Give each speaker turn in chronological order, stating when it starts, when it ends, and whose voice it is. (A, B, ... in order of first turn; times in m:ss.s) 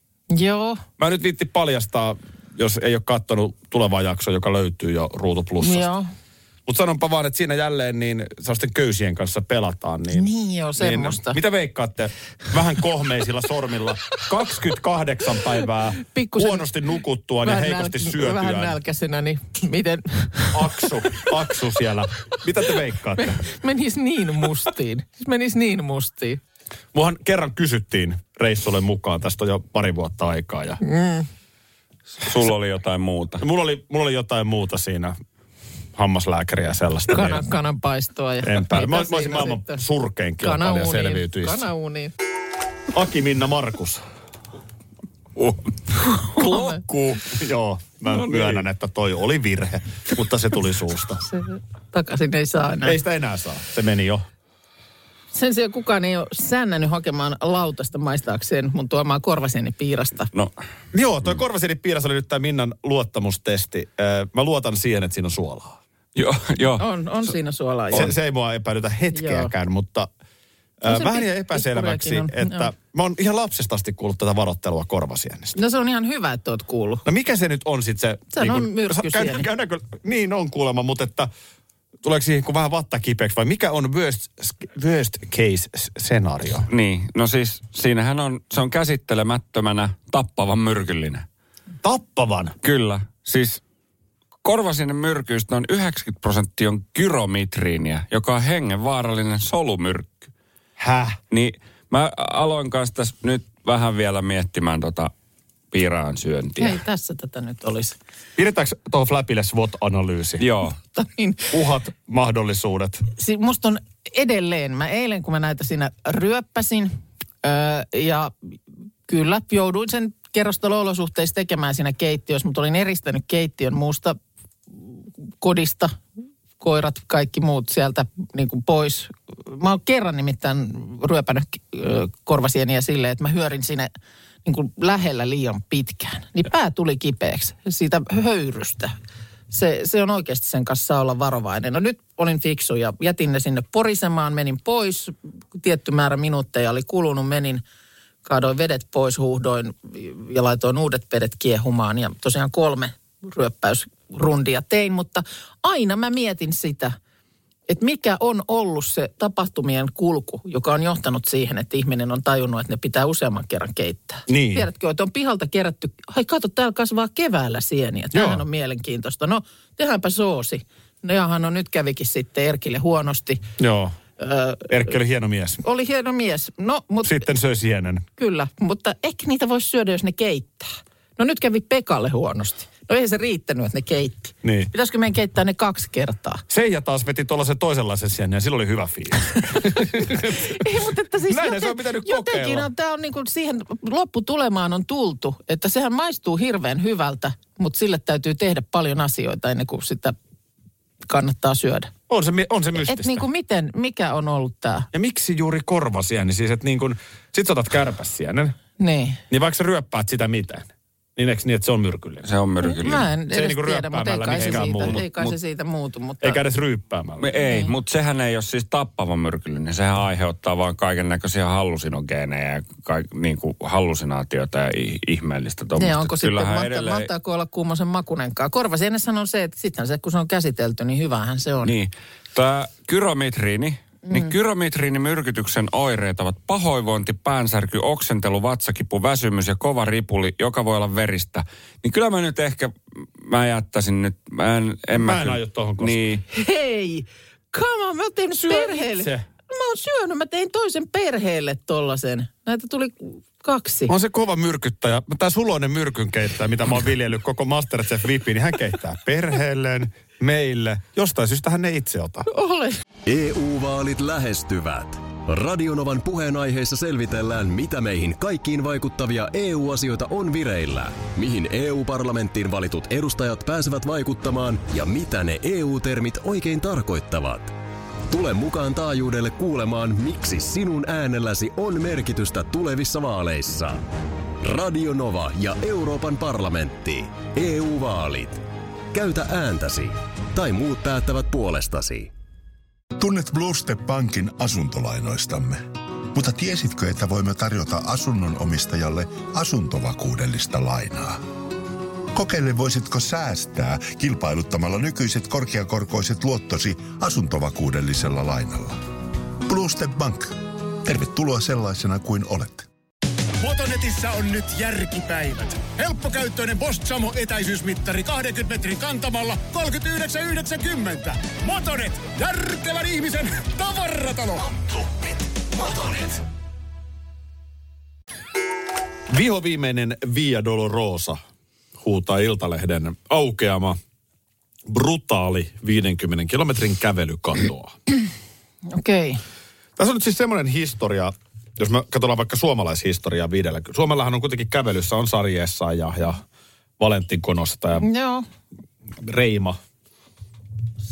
0:00.3-0:00.8 A
0:01.0-0:05.9 B
0:05.6-0:06.1 A
0:06.7-0:18.8 B
0:10.1-0:11.4 A
0:16.0-0:16.7 A
0:17.4-0:21.3 A
0:20.5-0:23.4 B
0:23.2-0:26.4 A
0:26.9-0:30.8 B
0:30.8-0:31.3 A
0:32.2-0:33.4 C
0:33.4-0:35.2 B
0:36.0-0:37.4 B
0:37.1-0:39.8 A
0:38.4-0:41.7 B
0:40.4-0:42.1 A
0:42.9-0:44.0 B
0:45.4-0:46.8 C
0:46.3-0:46.8 A
0:46.4-0:51.2 B
0:48.1-0:48.6 C
0:51.3-0:53.0 A
0:52.8-0:54.2 B
0:55.3-1:00.3 A
1:00.9-1:05.8 B
1:06.2-1:06.9 C
1:06.8-1:08.1 A
1:07.9-1:10.1 B
1:09.1-1:09.5 A
1:10.8-1:15.6 B
1:10.8-1:12.7 A
1:15.6-1:17.0 A
1:17.0-1:21.3 B
1:18.3-1:19.5 A
1:22.0-1:26.7 B
1:26.7-1:31.2 C
1:31.8-1:32.6 B
1:32.6-1:33.6 C
1:34.4-1:40.3 C
1:40.8-1:41.2 B
1:41.3-1:45.1 C
1:45.7-1:46.8 C
1:46.6-1:48.0 A
1:48.4-1:50.5 B
1:50.4-1:50.8 C
1:50.9-1:51.5 A
1:51.5-1:53.1 B
1:53.2-1:58.3 A
1:59.1-2:04.2 A
2:04.7-2:06.0 A
2:06.6-2:13.9 A
2:14.4-2:19.0 A
2:19.5-2:27.6 A
2:28.2-2:37.0 A
2:37.7-2:53.4 A
2:44.3-2:44.7 B
2:48.1-2:48.4 B
2:53.6-2:53.9 B
2:54.2-2:54.9 A
2:54.7-2:55.6 B
2:55.6-2:57.3 A
2:57.0-2:58.1 B
2:58.2-3:06.4 A
3:04.4-3:04.7 B
3:06.5-3:10.6 B
3:10.3-3:20.2 A
3:11.3-3:12.7 B
3:21.1-3:21.9 A
3:22.1-3:23.2 B
3:22.8-3:24.9 A
3:24.9-3:28.6 B
3:28.8-3:29.2 A
3:29.3-3:32.3 B
3:32.2-3:33.1 C
3:32.6-3:36.4 A
3:33.3-3:35.4 B
3:34.4-3:35.0 C
3:36.2-3:37.3 B
3:37.2-3:47.1 C
3:37.4-3:37.7 A
3:45.8-3:51.7 A
3:51.6-4:06.2 C
3:54.1-3:54.3 A
4:04.9-4:06.0 B
4:06.3-4:13.9 A
4:08.5-4:09.2 B
4:13.9-4:22.3 B
4:22.3-4:22.8 A
4:23.1-4:37.6 D
4:38.1-4:43.8 D
4:44.4-4:52.1 D
4:53.0-4:55.6 E
4:56.1-5:01.2 E
5:02.1-5:08.8 E
5:09.4-5:12.7 E
5:13.4-5:25.0 F
5:25.6-5:26.2 F
5:29.1-5:31.2 B
5:31.8-5:33.8 B
5:34.7-5:37.8 B
5:38.7-5:39.2 A
5:39.8-5:46.2 B
5:46.8-5:47.9 B
5:47.8-5:48.3 A
5:49.0-5:49.6 B